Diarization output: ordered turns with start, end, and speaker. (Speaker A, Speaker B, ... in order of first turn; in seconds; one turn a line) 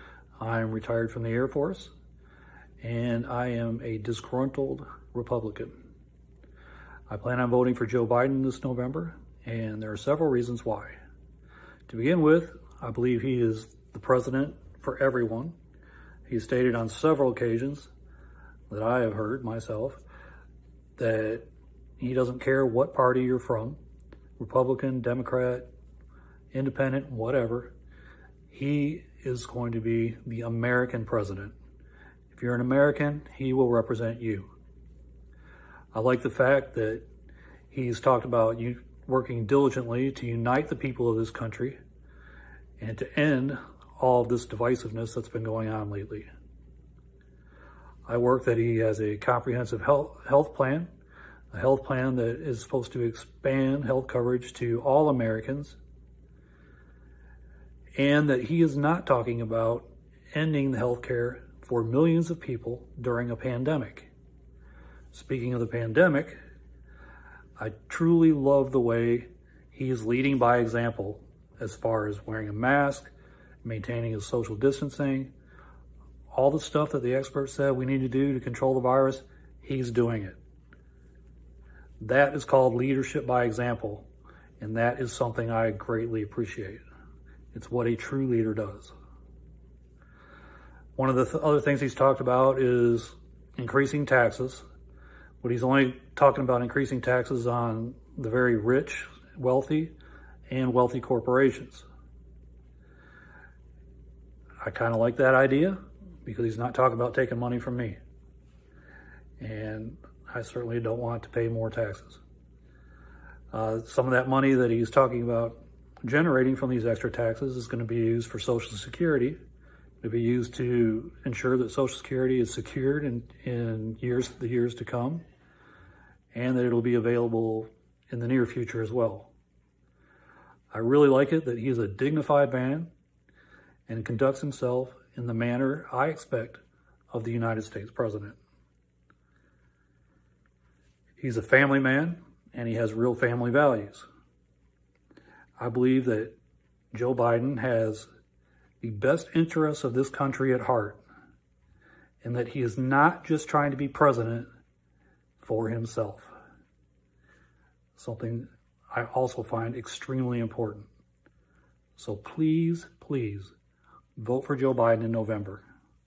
Speaker A: 0.4-1.9
Speaker A: 2.8-5.7
Speaker A: 7.1-11.0
Speaker A: 11.9-15.6
Speaker A: 16.3-17.9
Speaker A: 18.7-20.0
Speaker A: 21.0-21.5
Speaker A: 22.0-23.8
Speaker A: 24.4-25.7
Speaker A: 26.5-27.7
Speaker A: 28.5-31.6
Speaker A: 32.3-34.5
Speaker A: 35.9-37.0
Speaker A: 37.7-41.8
Speaker A: 42.8-46.3
Speaker A: 48.1-50.9
Speaker A: 51.5-55.8
Speaker A: 58.0-64.1
Speaker A: 65.1-66.4
Speaker A: 67.6-73.1
Speaker A: 73.6-75.3
Speaker A: 76.3-80.4
Speaker A: 82.0-84.1
Speaker A: 84.6-86.8
Speaker A: 87.5-88.9
Speaker A: 91.0-94.7
Speaker A: 95.4-99.9
Speaker A: 100.5-101.9
Speaker A: 104.6-108.0
Speaker A: 109.4-112.2
Speaker A: 113.5-119.4
Speaker A: 120.0-125.2
Speaker A: 126.3-129.3
Speaker A: 130.7-132.9
Speaker A: 133.9-138.4
Speaker A: 141.2-144.1
Speaker A: 145.6-146.4
Speaker A: 146.9-148.1
Speaker A: 148.8-151.0
Speaker A: 152.2-154.5
Speaker A: 155.4-156.3
Speaker A: 157.9-160.9
Speaker A: 162.0-163.5
Speaker A: 164.2-165.6